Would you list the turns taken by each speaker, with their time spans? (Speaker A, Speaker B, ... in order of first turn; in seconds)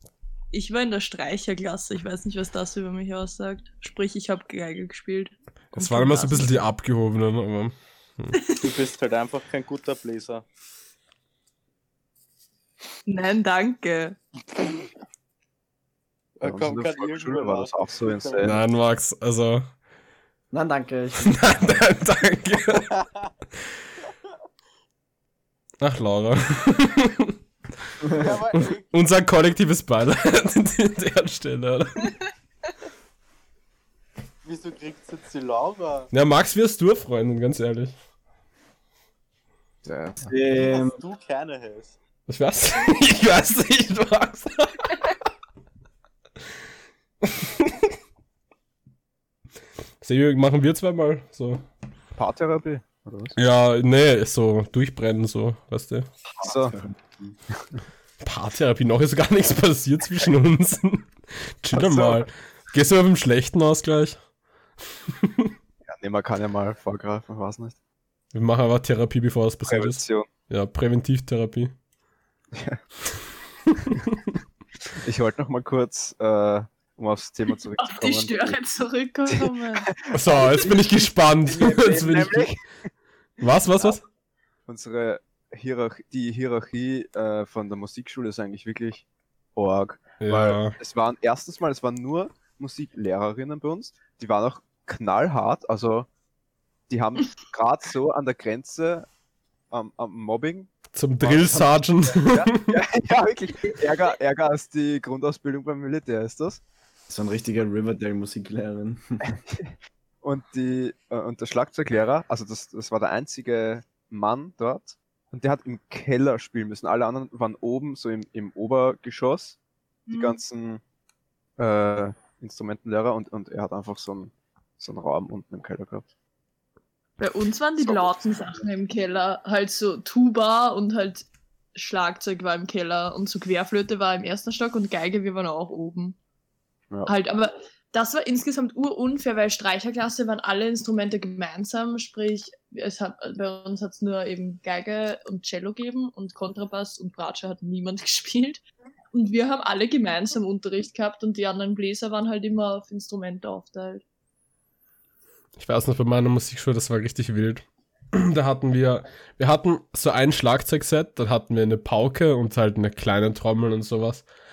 Speaker A: 0.5-6.6, 8.3-8.7, 13.1-14.2, 77.8-79.9, 120.1-120.4, 127.2-136.2, 137.1-154.0
Speaker B: 5.7-8.4, 18.4-19.7, 21.2-22.9, 25.8-27.4, 28.5-32.1, 36.1-37.9, 42.3-45.0, 47.2-47.8, 50.0-51.6, 53.4-56.1, 58.2-64.2, 65.2-65.5, 68.3-71.7, 73.7-74.2, 80.1-82.5, 83.4-84.0, 90.2-90.8, 100.9-102.8, 155.6-164.2
Speaker C: 8.6-10.4, 16.4-18.6, 22.9-23.3, 28.1-28.9, 34.4-36.1, 40.5-42.0
Speaker D: 16.4-18.6, 39.8-40.3, 52.1-53.4, 56.4-56.8, 61.7-62.2, 65.8-67.8, 69.7-70.3, 72.5-72.8, 75.0-78.6, 79.3-80.8, 81.5-82.8, 84.7-96.1, 96.9-99.1, 99.7-106.6, 109.4-119.6, 120.1-120.8, 121.6-126.1, 127.8-128.6
Speaker E: 20.5-21.9, 40.2-41.0, 56.4-57.3, 107.1-109.2